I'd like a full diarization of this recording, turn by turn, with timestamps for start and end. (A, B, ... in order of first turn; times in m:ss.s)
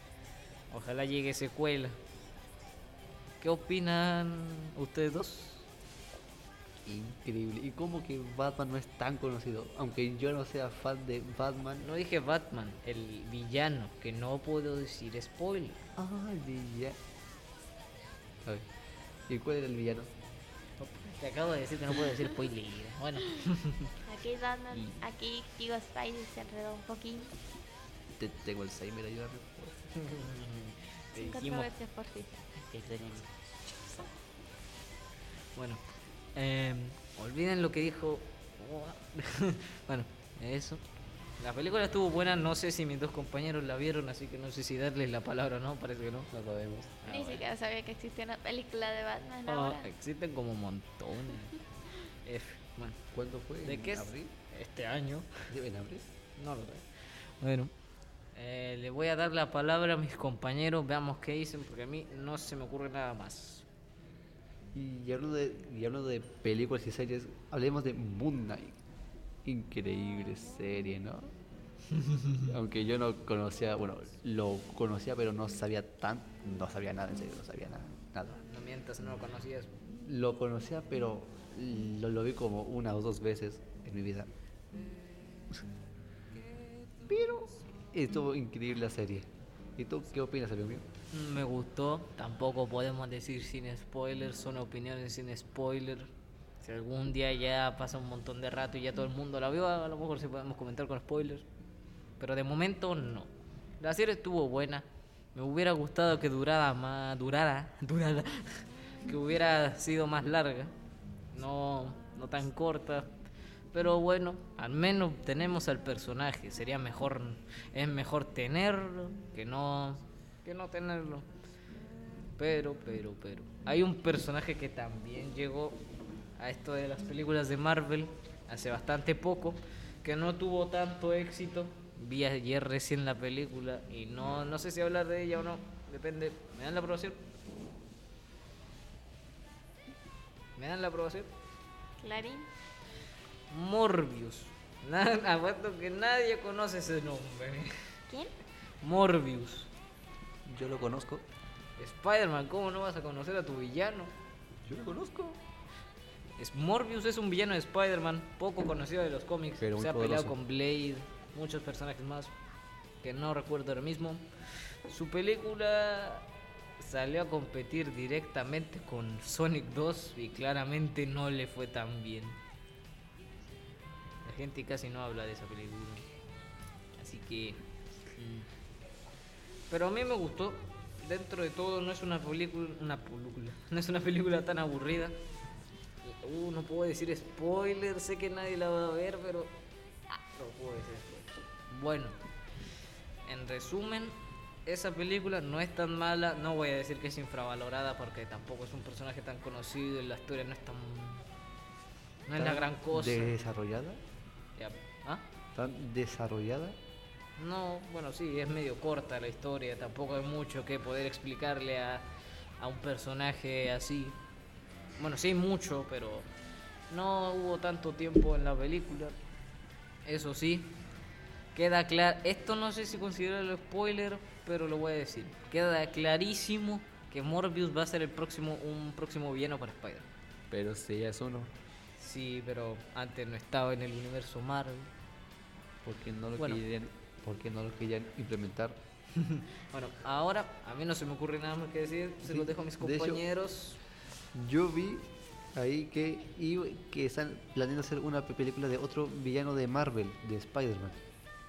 0:00.7-0:02.0 A
0:03.4-0:05.7 A
0:06.8-0:11.9 B
0:11.8-0:15.8 A
0:16.0-0:17.0 B
0:19.3-0:20.1 B
0:20.8-0:23.9 A
0:24.0-0:27.3 C
0:28.2-0:29.9 B
0:29.9-0:31.7 A
0:31.1-0:32.3 C
0:32.7-0:33.3 B
0:35.6-0:40.8 A
0:41.4-0:46.3 A
0:46.3-0:47.0 B
0:47.0-0:47.4 A
0:47.1-0:49.9 C
0:49.4-0:51.6 A
0:52.2-0:53.0 A
0:53.1-0:54.3 B
0:53.6-0:55.3 A
0:55.5-0:56.1 B
0:56.4-0:56.9 A
0:57.4-0:57.7 A
0:58.3-1:03.6 A
1:04.7-1:08.8 B
1:09.4-1:11.3 B
1:11.9-1:12.5 A
1:12.4-1:18.4 B
1:18.4-1:19.7 A
1:19.9-1:24.3 B
1:27.0-1:30.8 B
1:31.1-1:41.4 A
1:42.2-1:50.7 A
1:51.3-1:53.1 A
1:53.7-2:01.2 A
2:02.4-2:05.8 A
2:06.4-2:17.2 A
2:20.6-2:21.3 A
2:22.0-2:22.5 C
2:23.5-2:27.8 A
2:28.8-2:29.7 A
2:30.4-2:31.2 B
2:31.8-2:34.1 A
2:34.6-2:35.4 B
2:36.4-2:42.3 A
2:39.6-2:40.4 B
2:43.0-2:44.3 A
2:44.8-2:46.3 A
2:46.8-2:52.4 A
2:54.2-2:56.0 A
2:57.0-2:57.6 A
2:58.1-2:58.5 A
2:59.7-3:05.2 A
3:06.0-3:09.6 A
3:10.1-3:12.2 A
3:13.2-3:21.3 A
3:22.2-3:23.4 A
3:22.4-3:24.0 B
3:24.6-3:25.2 A
3:25.5-3:26.8 B
3:27.4-3:32.1 A
3:32.6-3:34.2 A
3:35.0-3:36.3 A
3:36.9-3:39.2 A
3:40.0-3:40.8 A
3:41.5-3:50.1 A
3:50.5-3:51.5 B
3:52.0-3:54.9 A
3:55.8-3:58.8 B
3:56.4-3:56.6 A
3:59.1-4:03.8 A
4:02.2-4:03.2 B
4:04.3-4:11.0 B